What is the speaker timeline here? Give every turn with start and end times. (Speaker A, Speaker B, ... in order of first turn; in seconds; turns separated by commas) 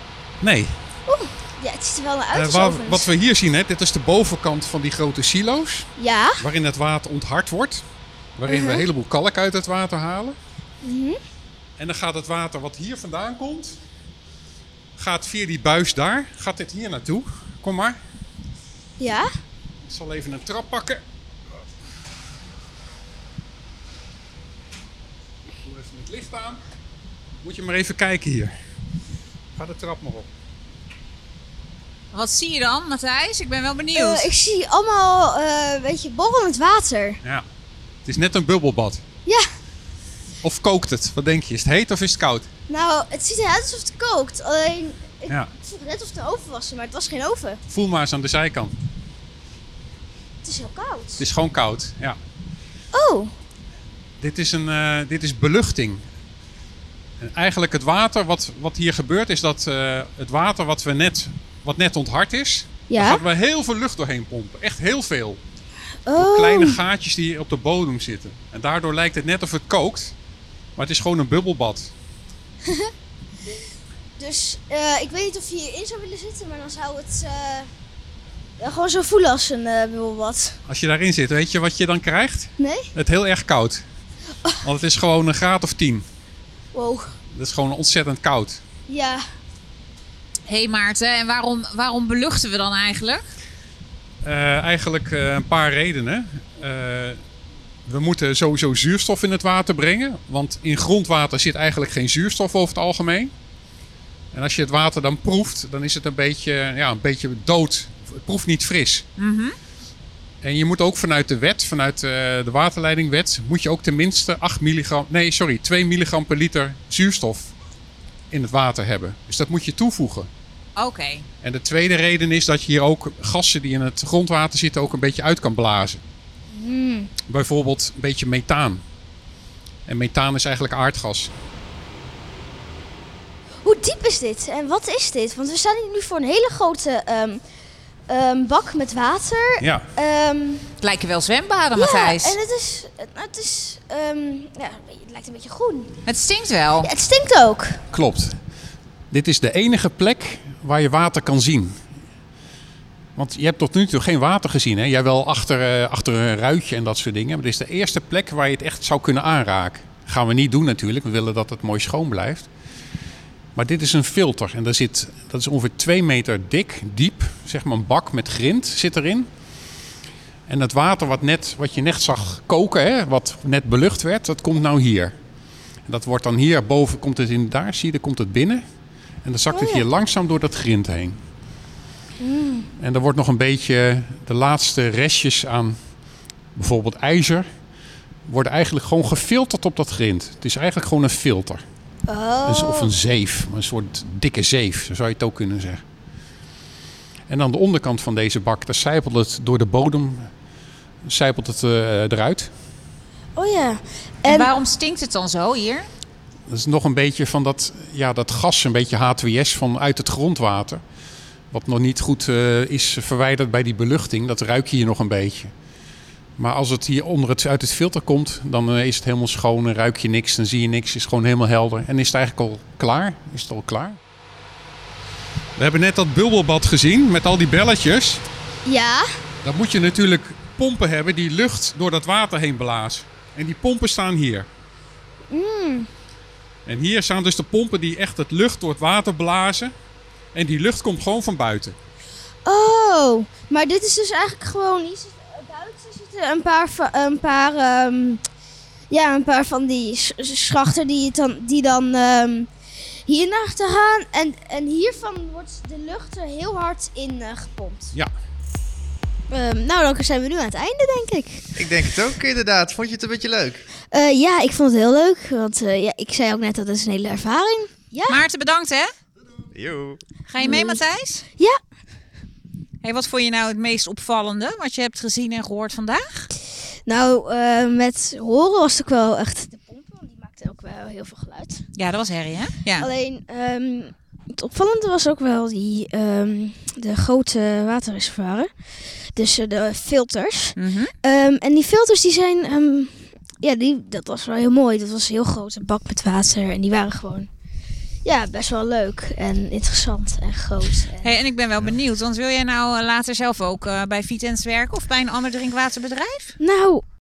Speaker A: 0.4-0.8, Speaker B: 1.1-3.1, Speaker A: 2.3-7.8, Speaker B: 6.0-6.4, Speaker A: 8.4-10.4, Speaker B: 8.5-8.9, Speaker B: 10.8-11.2, Speaker A: 11.8-13.8, Speaker A: 15.0-18.0, Speaker B: 19.0-19.3, Speaker A: 19.8-21.0, Speaker A: 25.4-26.6, Speaker A: 27.4-28.5, Speaker A: 29.5-30.3, Speaker C: 32.1-34.3, Speaker B: 33.9-37.2, Speaker A: 38.0-39.0, Speaker A: 40.4-42.5, Speaker B: 42.7-47.6, Speaker A: 47.7-48.7, Speaker B: 50.4-51.2, Speaker A: 51.2-52.2, Speaker B: 52.9-53.3, Speaker A: 54.2-56.0, Speaker A: 57.2-65.4, Speaker B: 62.9-63.2, Speaker B: 66.1-66.8, Speaker A: 66.1-70.1, Speaker A: 70.8-71.9, Speaker B: 72.6-72.9, Speaker B: 74.2-77.7, Speaker B: 78.6-80.6, Speaker A: 80.7-83.8, Speaker B: 82.6-82.9, Speaker A: 84.6-86.0, Speaker B: 86.7-87.1, Speaker A: 87.3-88.6, Speaker B: 88.9-89.2, Speaker C: 90.5-93.2, Speaker A: 94.2-97.2, Speaker A: 97.9-103.3, Speaker A: 104.3-109.0, Speaker C: 109.2-109.5, Speaker A: 110.4-117.5, Speaker A: 118.3-120.3, Speaker C: 120.8-121.3, Speaker A: 121.4-126.0, Speaker B: 126.5-127.1, Speaker A: 127.3-128.8, Speaker A: 129.8-131.3, Speaker B: 133.6-137.4, Speaker B: 138.1-140.6, Speaker A: 139.6-139.8, Speaker C: 140.8-142.4, Speaker B: 141.7-146.0, Speaker C: 146.1-146.9, Speaker B: 146.8-147.8, Speaker A: 147.9-148.4, Speaker A: 149.1-151.8, Speaker A: 153.2-162.5, Speaker A: 163.5-169.3, Speaker A: 170.5-175.2, Speaker A: 175.8-178.6, Speaker A: 179.2-181.2, Speaker B: 179.5-179.9, Speaker B: 182.2-182.7, Speaker A: 182.8-185.8, Speaker A: 186.5-187.4, Speaker A: 188.2-191.6, Speaker B: 192.1-192.9, Speaker A: 192.4-195.8, Speaker A: 197.3-200.3, Speaker A: 201.0-202.5, Speaker B: 203.3-204.5, Speaker C: 204.2-205.9, Speaker A: 206.5-210.8, Speaker A: 211.5-215.5, Speaker A: 216.4-224.0, Speaker A: 225.6-228.2, Speaker B: 228.7-229.0, Speaker A: 229.4-234.5, Speaker B: 235.3-235.9, Speaker A: 236.7-239.7, Speaker A: 240.3-241.8, Speaker B: 242.4-248.2, Speaker B: 248.9-252.5, Speaker B: 253.0-257.9, Speaker B: 259.3-261.9, Speaker D: 261.6-263.6, Speaker B: 263.9-268.3, Speaker C: 268.1-268.9, Speaker D: 269.5-270.0, Speaker C: 270.3-271.2, Speaker B: 270.4-270.8, Speaker C: 272.8-276.3, Speaker B: 276.9-281.6, Speaker C: 281.7-282.9, Speaker B: 282.8-288.5, Speaker B: 289.1-297.3, Speaker C: 290.6-290.9, Speaker B: 298.0-301.2, Speaker C: 301.0-306.4, Speaker B: 306.4-306.8